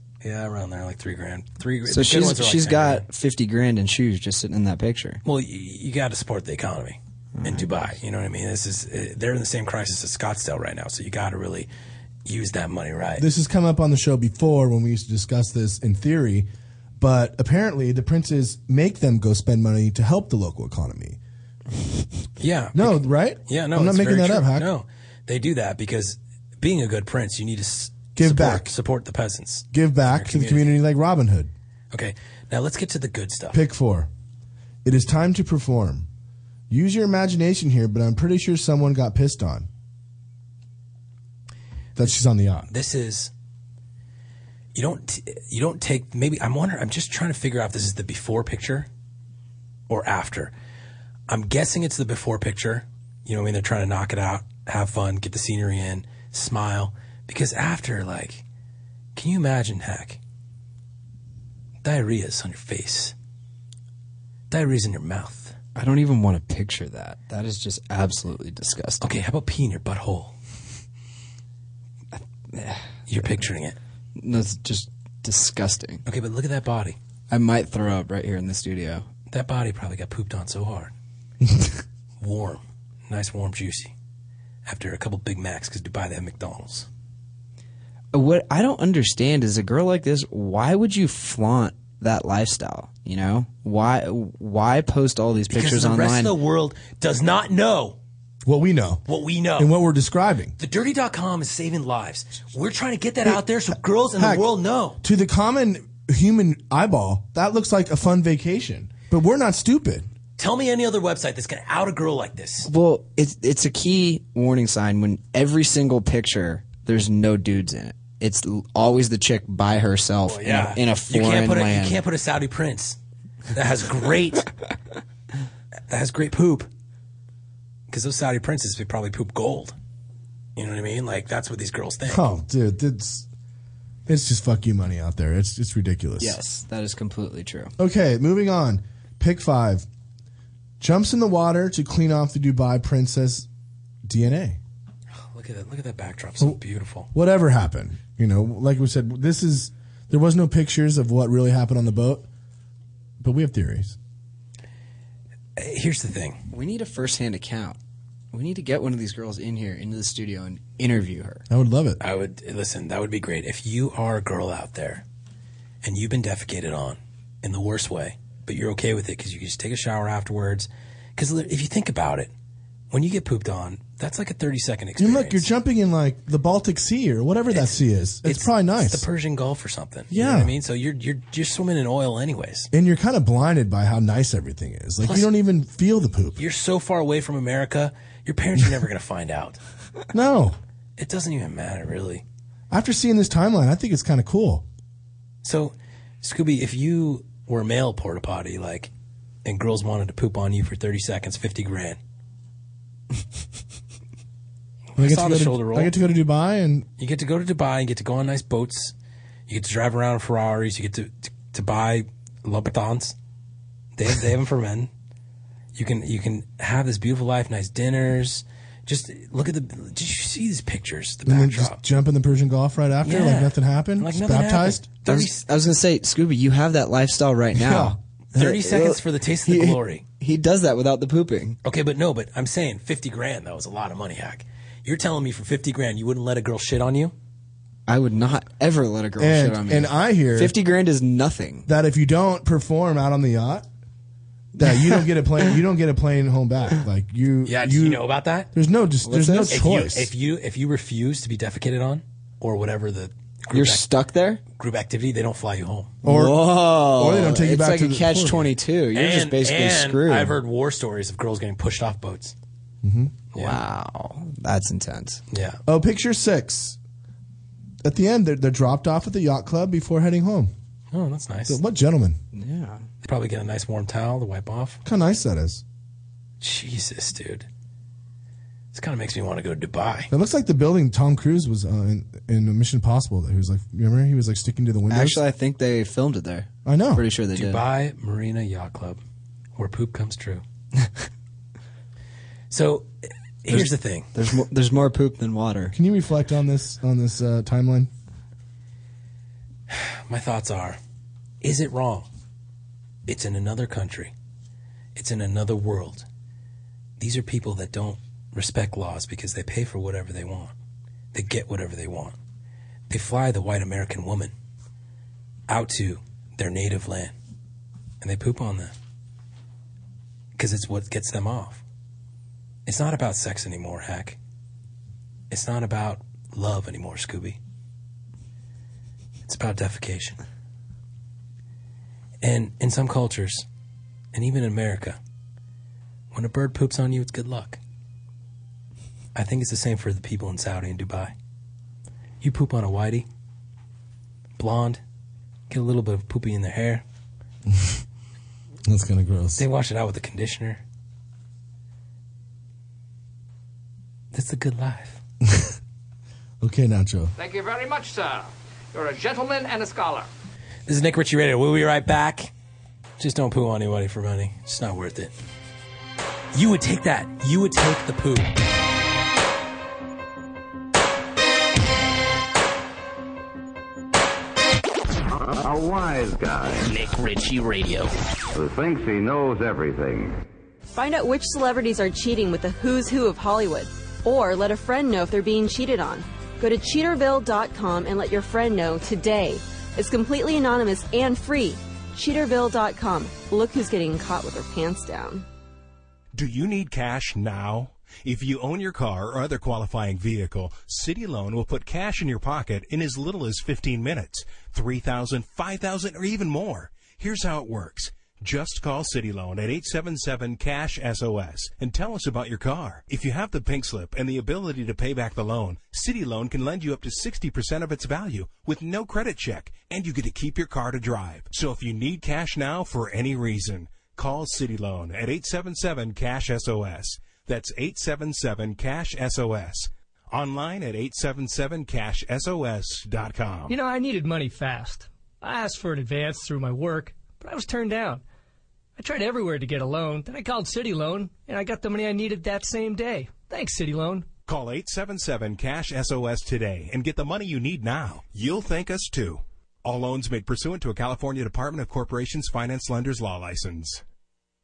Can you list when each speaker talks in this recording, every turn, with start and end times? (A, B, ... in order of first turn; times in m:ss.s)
0:00.2-0:03.0 A
0:01.9-0:05.2 B
0:05.2-0:11.7 A
0:07.4-0:07.7 B
0:12.3-0:13.3 A
0:13.2-0:21.2 C
0:22.4-0:30.7 A
0:22.8-0:24.7 C
0:28.2-0:28.7 C
0:29.7-0:31.5 C
0:31.9-0:33.6 A
0:33.5-0:34.1 C
0:34.8-0:36.1 C
0:36.7-0:39.7 C
0:42.0-0:42.7 C
0:42.7-0:43.3 A
0:44.8-0:48.9 A
0:49.9-0:50.5 A
0:51.3-0:58.4 A
0:59.2-1:00.2 A
1:01.8-1:03.1 A
1:04.5-1:05.5 A
1:05.8-1:09.0 B
1:09.0-1:10.4 A
1:12.1-1:13.4 B
1:13.1-1:13.8 A
1:14.2-1:16.0 B
1:16.1-1:17.0 A
1:17.3-1:19.1 B
1:19.3-1:20.9 A
1:22.2-1:23.9 A
1:24.6-1:26.9 A
1:28.1-1:36.3 B
1:35.5-1:38.0 A
1:38.5-1:39.0 C
1:39.1-1:39.7 A
1:39.6-1:40.6 C
1:40.6-1:45.0 A
1:44.2-1:44.4 C
1:45.0-1:50.1 C
1:50.4-1:52.7 A
1:52.7-2:02.0 B
2:00.2-2:03.0 A
2:03.5-2:04.5 A
2:05.9-2:06.7 A
2:07.9-2:09.8 A
2:10.6-2:12.2 A
2:12.1-2:13.3 C
2:14.1-2:16.4 C
2:16.2-2:17.7 B
2:17.8-2:19.9 C
2:20.8-2:23.5 C
2:24.1-2:24.6 C
2:25.3-2:27.1 A
2:27.1-2:32.3 C
2:33.2-2:34.0 C
2:35.6-2:36.4 A
2:36.5-2:37.8 B
2:38.3-2:41.4 B
2:41.5-2:42.0 C
2:42.0-2:45.0 A
2:45.8-2:52.3 A
2:52.9-2:55.5 A
2:55.0-2:59.0 C
2:57.5-3:02.7 A
3:00.1-3:00.5 C
3:02.7-3:06.4 C
3:05.0-3:05.3 A
3:06.4-3:09.6 A
3:10.1-3:10.6 C
3:11.0-3:12.2 A
3:12.7-3:14.6 C
3:15.4-3:18.9 A
3:19.4-3:22.0 A
3:25.0-3:25.9 A
3:25.0-3:26.9 C
3:27.0-3:28.9 A
3:29.5-3:33.2 A
3:34.0-3:34.9 A
3:35.8-3:41.8 A
3:41.3-3:44.8 C
3:43.0-3:45.5 A
3:45.1-3:51.6 B
3:47.6-3:48.0 C
3:48.4-3:50.0 A
3:51.6-3:57.1 A
3:57.9-4:01.7 B
3:59.2-4:00.6 C
4:01.7-4:03.7 C
4:04.6-4:08.0 C
4:04.6-4:04.9 B
4:07.4-4:08.5 A
4:08.5-4:10.1 C
4:09.0-4:09.6 B
4:09.5-4:13.9 A
4:13.5-4:14.4 B
4:14.6-4:15.9 A
4:16.0-4:18.5 C
4:16.0-4:20.4 B
4:18.9-4:22.3 A
4:22.8-4:23.2 C
4:23.3-4:23.6 A
4:23.4-4:25.2 B
4:25.3-4:25.6 A
4:25.7-4:26.8 C
4:27.8-4:30.5 C
4:30.9-4:31.6 A
4:31.5-4:32.2 C
4:32.3-4:32.9 B
4:33.0-4:34.8 A
4:34.8-4:35.6 C
4:36.4-4:37.5 A
4:38.7-4:40.1 A
4:40.1-4:45.2 C
4:44.9-4:47.6 B
4:46.6-4:47.0 C
4:47.3-4:49.0 A
4:49.6-4:50.4 A
4:52.5-4:52.9 A
4:53.4-4:54.1 A
4:53.5-4:55.8 B
4:55.7-4:57.9 C
4:59.7-5:00.8 A
5:01.4-5:02.1 A
5:03.1-5:04.1 A
5:05.0-5:06.0 A
5:07.0-5:10.5 A
5:11.1-5:12.2 A
5:12.9-5:14.3 A
5:15.5-5:17.1 A
5:18.0-5:18.7 A
5:20.4-5:21.6 A
5:22.7-5:24.2 A
5:25.3-5:27.4 A
5:29.3-5:30.2 A
5:32.2-5:33.4 A
5:34.1-5:35.0 A
5:36.1-5:37.6 A
5:39.2-5:41.1 A
5:42.2-5:43.1 A
5:44.4-5:44.8 A
5:45.5-5:46.8 A
5:47.5-5:47.8 C
5:48.7-5:49.4 C
5:49.4-5:50.6 A
5:54.1-5:55.0 A
5:55.3-5:55.5 C
5:56.4-5:57.1 C
5:57.2-6:00.1 D
6:00.7-6:02.3 A
6:03.0-6:05.1 A
6:06.3-6:08.4 A
6:15.1-6:20.2 E
6:20.7-6:35.2 F
6:36.1-7:13.5 G
7:13.5-7:18.0 H
7:18.8-7:24.1 H
7:24.3-7:33.8 G